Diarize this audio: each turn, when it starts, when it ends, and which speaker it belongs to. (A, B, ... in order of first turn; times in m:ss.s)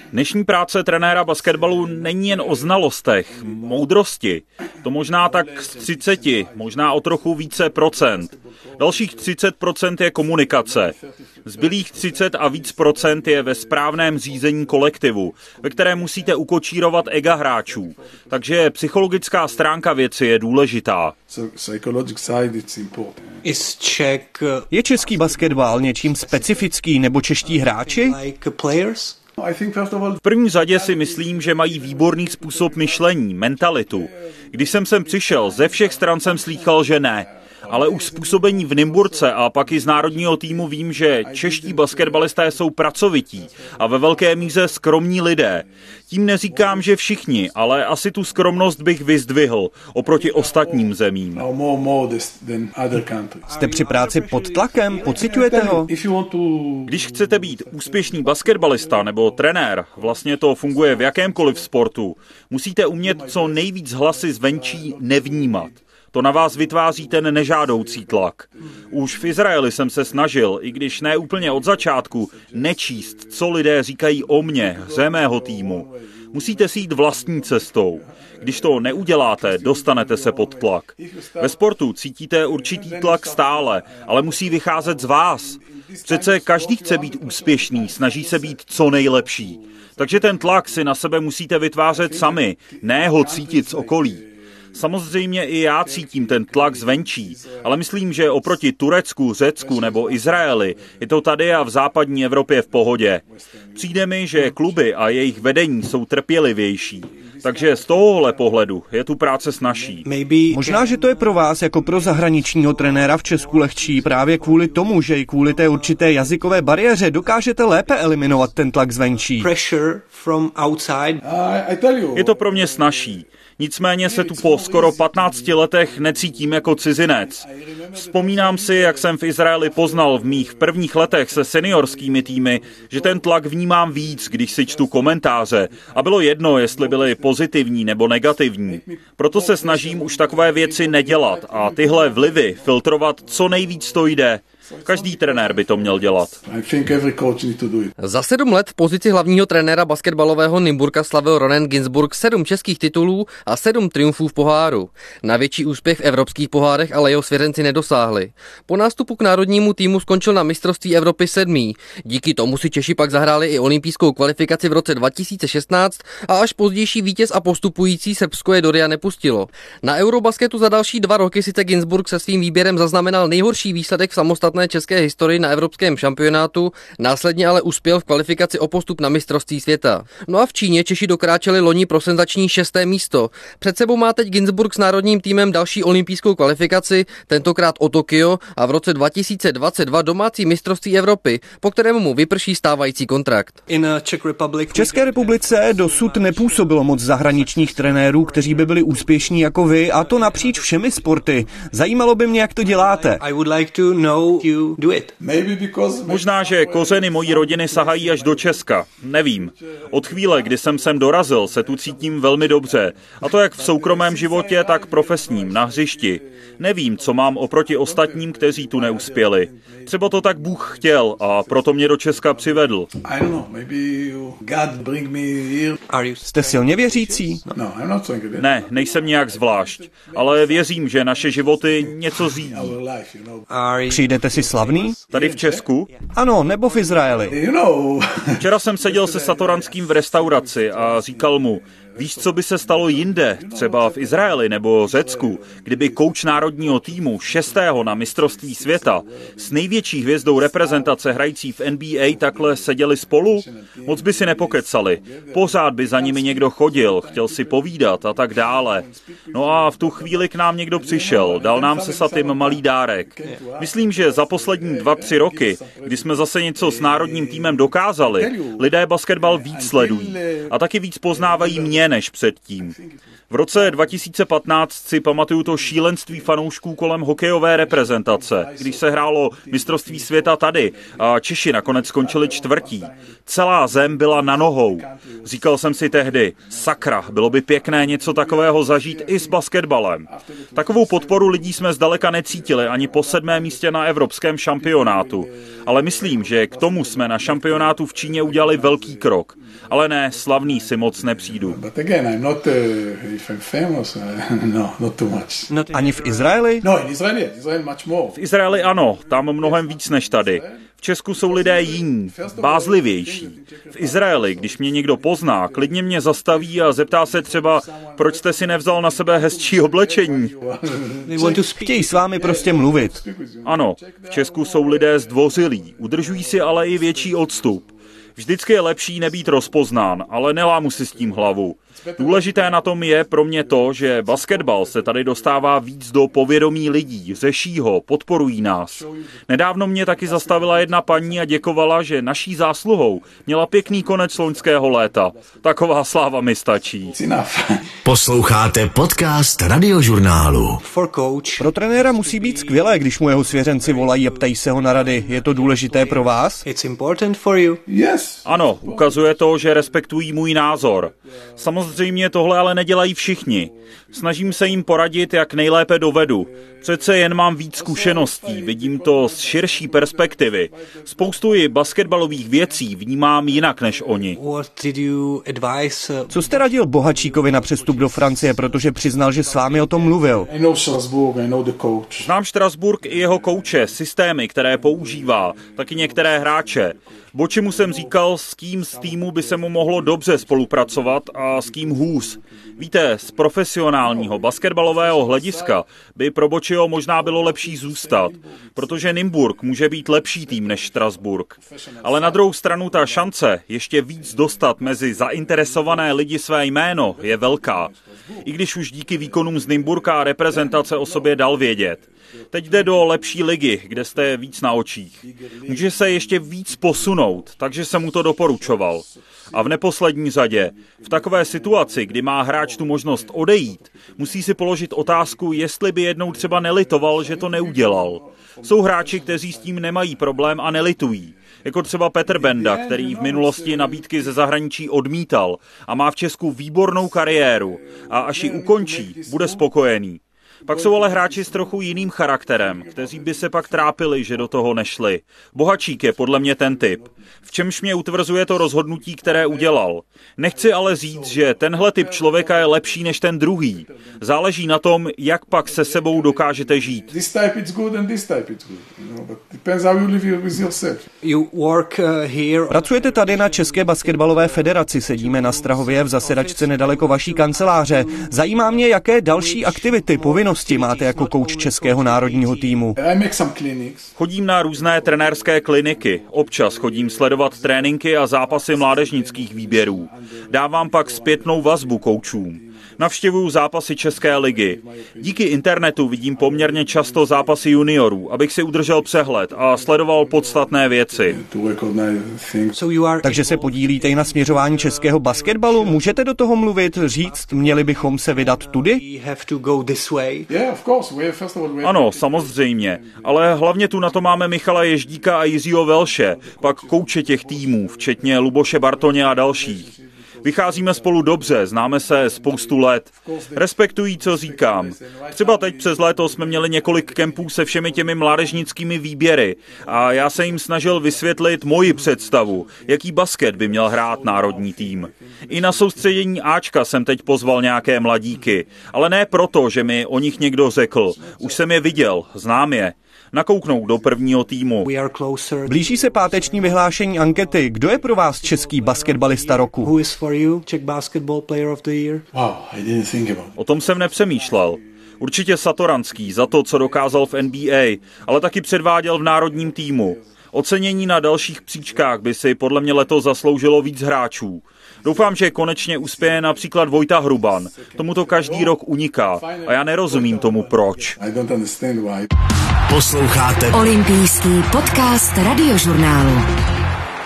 0:00.1-0:10.9 A
0:01.4-0:03.8 B
0:05.0-0:09.3 B
0:10.2-0:19.7 B
0:11.4-0:21.1 A
0:21.3-0:23.2 B
0:23.4-0:26.7 C
0:24.7-0:28.2 D
0:27.4-0:29.2 C
0:29.4-0:33.2 B
0:30.2-0:51.4 A
0:33.9-0:42.6 B
0:43.4-0:44.8 B
0:46.5-0:47.0 B
0:50.1-0:53.5 B
0:53.4-0:55.7 C
0:53.6-0:55.9 D
0:55.1-1:01.7 B
0:56.9-1:34.2 A
1:03.0-1:05.8 B
1:06.3-1:13.4 B
1:14.2-1:21.6 B
1:22.5-1:30.8 B
1:31.9-1:34.3 B
1:34.8-1:43.2 A
1:35.8-1:38.6 B
1:39.6-1:41.1 B
1:42.9-1:45.6 B
1:43.8-1:50.1 A
1:47.1-1:48.7 B
1:49.7-1:50.0 B
1:50.0-1:51.5 C
1:50.5-1:59.5 D
1:51.8-1:57.0 B
1:59.4-2:01.2 C
2:01.2-2:03.2 B
2:02.2-2:07.4 A
2:04.0-2:13.3 B
2:08.0-2:26.4 A
2:14.0-2:17.4 B
2:18.7-2:24.0 B
2:24.6-2:27.9 B
2:28.0-3:13.6 E
3:13.7-3:21.4 C
3:14.7-3:23.2 D
3:22.4-3:25.1 C
3:25.2-3:45.8 B
3:26.1-3:42.9 A
3:45.9-3:47.5 C
3:46.3-3:47.4 D
3:47.5-3:53.5 B
3:48.4-3:52.8 A
3:53.5-3:55.1 C
3:53.9-3:55.0 D
3:55.1-3:55.7 B
3:55.1-3:55.9 A
3:55.9-3:57.4 C
3:56.1-3:57.4 D
3:57.2-4:09.6 B
3:58.4-4:32.8 A
4:10.2-4:11.0 B
4:12.0-4:28.6 B
4:29.2-4:30.5 B
4:31.1-4:31.8 B
4:32.6-4:33.0 B
4:33.3-5:01.6 A
4:33.5-4:33.9 B
4:35.5-4:36.4 B
4:37.6-4:43.1 B
4:44.2-4:49.4 B
4:50.1-4:53.7 B
4:54.6-5:05.5 B
5:05.5-5:06.4 C
5:05.7-5:06.6 D
5:06.6-5:21.2 B
5:08.2-5:20.3 A
5:21.0-5:22.0 C
5:21.2-5:23.0 D
5:22.1-5:27.7 B
5:23.4-5:47.0 A
5:29.1-5:29.6 B
5:30.7-5:35.5 B
5:38.7-5:39.2 B
5:40.0-5:41.6 B
5:43.0-5:45.6 B
5:46.6-5:47.7 B
5:47.8-5:50.6 F
5:50.6-5:57.6 C
5:51.4-5:56.4 D
5:57.7-5:59.7 B
5:58.2-6:14.2 A
6:00.4-6:02.1 B
6:03.1-6:04.8 B
6:06.0-6:06.6 B
6:07.6-6:12.7 B
6:13.3-6:14.2 B
6:14.1-6:16.5 C
6:16.1-6:20.3 D
6:16.8-6:22.1 B
6:22.0-7:36.9 A
6:22.8-6:23.8 B
6:24.5-6:28.0 B
6:28.7-6:33.2 B
6:33.8-6:35.6 B
6:37.0-6:43.1 B
6:43.9-6:46.0 B
6:46.8-6:54.3 B
6:55.0-6:59.6 B
7:00.2-7:05.4 B
7:06.0-7:11.3 B
7:12.1-7:14.2 B
7:17.6-7:19.5 B
7:20.5-7:24.2 B
7:25.6-7:26.9 B
7:28.4-7:29.6 B
7:30.3-7:34.0 B
7:35.4-7:40.9 B
7:41.0-7:52.7 C
7:42.5-7:52.8 D
7:52.8-7:54.0 B
7:54.0-8:11.2 A
7:54.5-8:02.9 B
8:03.9-8:05.6 B
8:06.1-8:12.6 B
8:12.5-8:14.9 C
8:13.0-8:18.8 D
8:14.4-8:17.7 B
8:17.1-8:20.3 C
8:20.3-8:25.0 B
8:21.6-8:29.7 A
8:25.8-8:38.5 B
8:30.2-8:54.7 A
8:39.6-8:45.9 B
8:50.6-8:51.9 B
8:54.6-9:02.0 C
8:55.5-8:59.7 D
9:02.1-9:05.0 B
9:03.4-9:21.0 A
9:05.9-9:10.0 B
9:11.1-9:12.1 B
9:14.8-9:18.6 B
9:19.1-9:22.1 B
9:22.7-9:23.7 F
9:23.5-9:26.3 G